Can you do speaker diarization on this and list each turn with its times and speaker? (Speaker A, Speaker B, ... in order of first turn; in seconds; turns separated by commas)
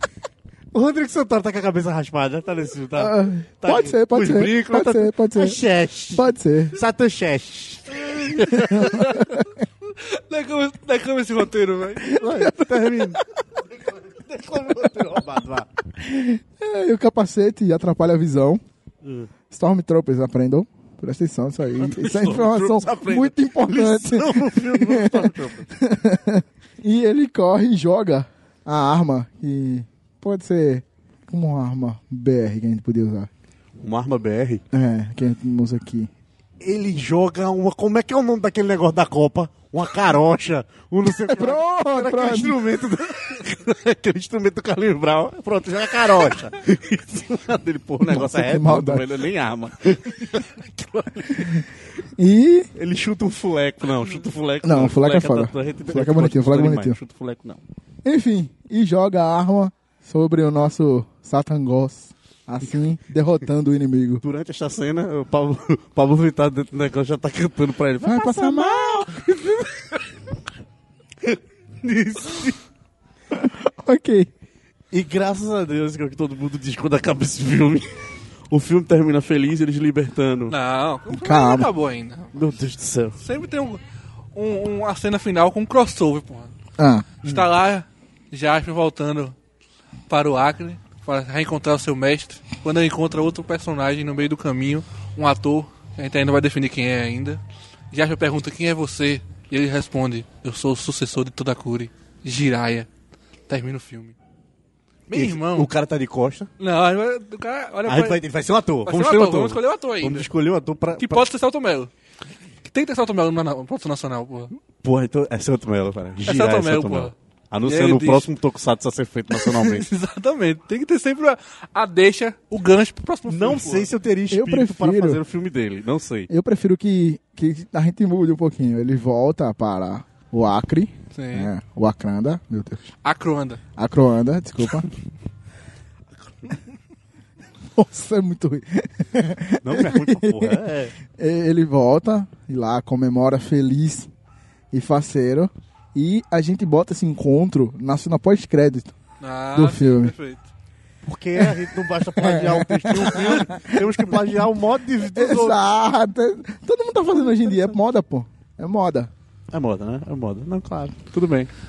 Speaker A: 0.7-8.7, Speaker B: 2.9-5.6, Speaker B: 6.1-6.8, Speaker C: 8.4-9.2, Speaker B: 8.5-9.5, Speaker C: 10.0-12.2, Speaker A: 12.1-15.7, Speaker B: 12.2-12.8, Speaker B: 16.0-18.6, Speaker A: 19.0-19.3, Speaker B: 19.5-33.3, Speaker A: 21.8-25.7, Speaker A: 33.8-34.6, Speaker B: 34.7-36.1, Speaker A: 36.6-51.6, Speaker B: 41.1-42.6, Speaker B: 48.0-49.1, Speaker B: 51.3-51.6, Speaker B: 52.2-52.7, Speaker A: 52.8-57.6, Speaker B: 54.6-57.0, Speaker B: 58.0-64.2, Speaker A: 64.2-69.7, Speaker B: 68.0-69.2, Speaker A: 71.2-72.6, Speaker B: 73.3-74.3, Speaker A: 74.9-80.5, Speaker C: 80.5-82.3, Speaker B: 81.1-81.7, Speaker A: 82.3-83.2, Speaker C: 83.2-83.8, Speaker C: 84.3-86.5, Speaker B: 86.8-87.1, Speaker C: 87.2-89.3, Speaker C: 90.1-97.4, Speaker C: 97.9-102.9, Speaker C: 103.5-104.1, Speaker C: 105.1-105.7, Speaker A: 105.1-106.5, Speaker C: 106.6-108.2, Speaker A: 107.8-111.3, Speaker C: 108.8-110.3, Speaker C: 111.0-111.9, Speaker C: 112.7-114.5, Speaker A: 114.8-119.8, Speaker C: 116.2-117.1, Speaker C: 117.7-118.3, Speaker C: 119.3-123.9, Speaker A: 123.3-126.3, Speaker B: 124.3-125.2, Speaker B: 126.3-132.9, Speaker C: 131.1-131.5, Speaker C: 133.0-133.6, Speaker B: 133.8-134.9, Speaker B: 137.8-144.1, Speaker A: 139.6-140.9, Speaker B: 144.7-148.9, Speaker C: 149.2-150.5, Speaker B: 149.5-150.1, Speaker A: 151.0-155.6, Speaker B: 152.2-154.3, Speaker B: 155.1-159.1, Speaker A: 159.5-161.5